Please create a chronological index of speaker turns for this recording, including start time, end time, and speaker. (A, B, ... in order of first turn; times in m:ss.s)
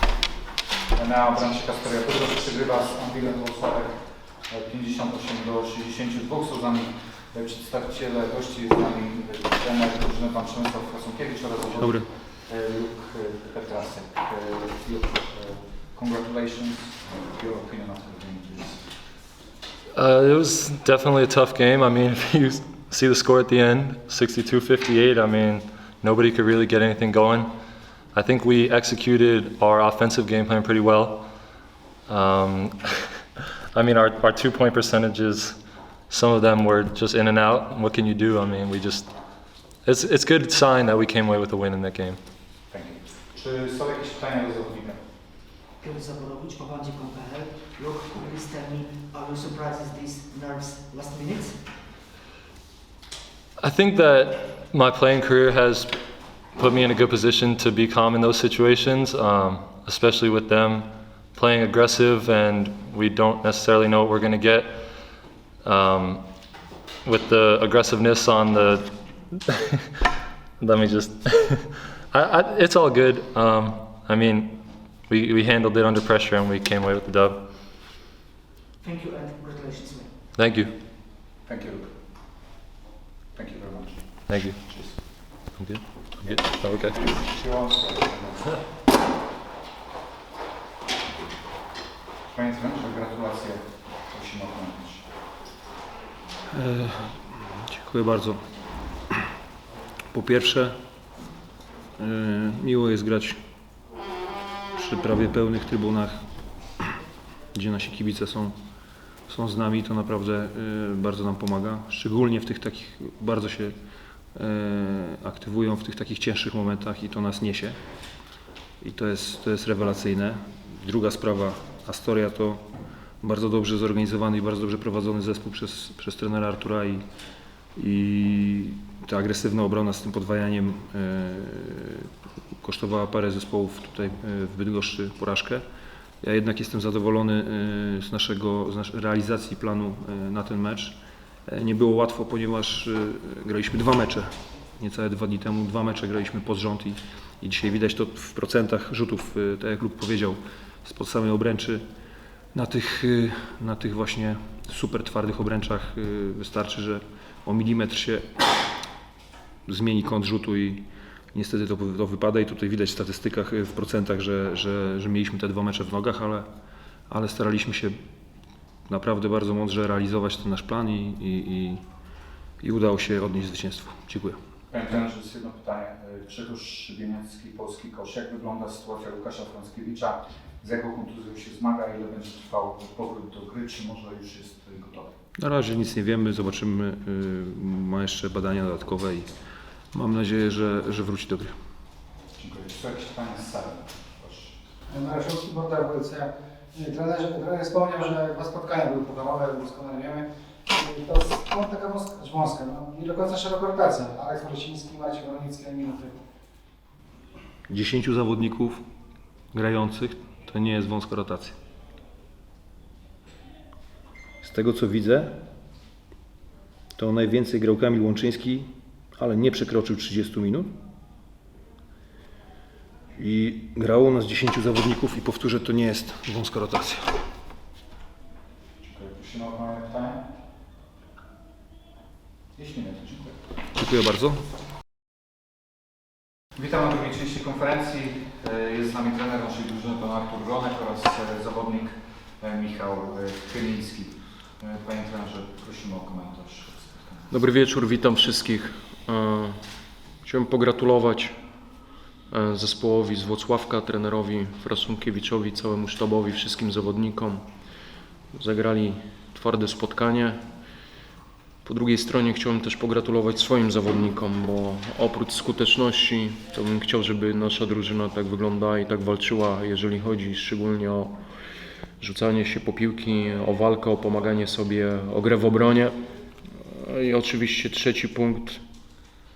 0:00.9-0:18.9 A
0:11.8-0:12.1 B
0:20.0-0:27.5 C
0:28.1-0:31.2 C
0:32.1-0:32.7 C
0:33.8-0:35.6 C
0:36.1-0:39.1 C
0:39.8-0:42.2 C
0:42.7-0:45.0 A
0:45.8-0:51.6 D
0:53.6-0:55.9 C
0:56.6-1:04.8 C
1:05.6-1:06.2 C
1:07.0-1:08.8 C
1:10.6-1:17.4 C
1:18.8-1:20.1 D
1:20.4-1:20.7 C
1:21.4-1:21.9 A
1:23.3-1:25.0 A
1:24.3-1:24.6 C
1:25.5-1:27.0 C
1:26.4-1:28.6 A
1:32.3-1:35.1 A
1:36.5-1:38.4 B
1:40.1-1:40.8 B
1:42.0-1:43.4 B
1:44.7-1:46.2 B
1:47.5-1:48.6 B
1:49.3-1:53.8 B
1:54.3-1:58.0 B
1:58.8-2:02.7 B
2:03.2-2:07.0 B
2:07.8-2:15.6 B
2:16.2-2:31.8 B
2:32.5-2:38.3 B
2:39.7-2:46.5 B
2:47.1-2:48.0 B
2:48.9-2:51.8 B
2:52.6-2:54.4 B
2:54.7-3:05.1 A
3:05.4-3:09.3 B
3:09.9-3:11.5 B
3:12.4-3:14.6 A
3:14.9-3:26.2 E
3:27.7-3:28.8 B
3:29.5-3:31.6 B
3:34.4-3:35.4 B
3:37.0-3:40.7 B
3:43.2-3:47.2 B
3:48.8-3:50.2 A
3:52.6-3:53.4 A
3:53.8-3:54.4 B
3:56.6-4:07.3 A
4:07.3-4:20.8 F
4:21.6-4:38.6 F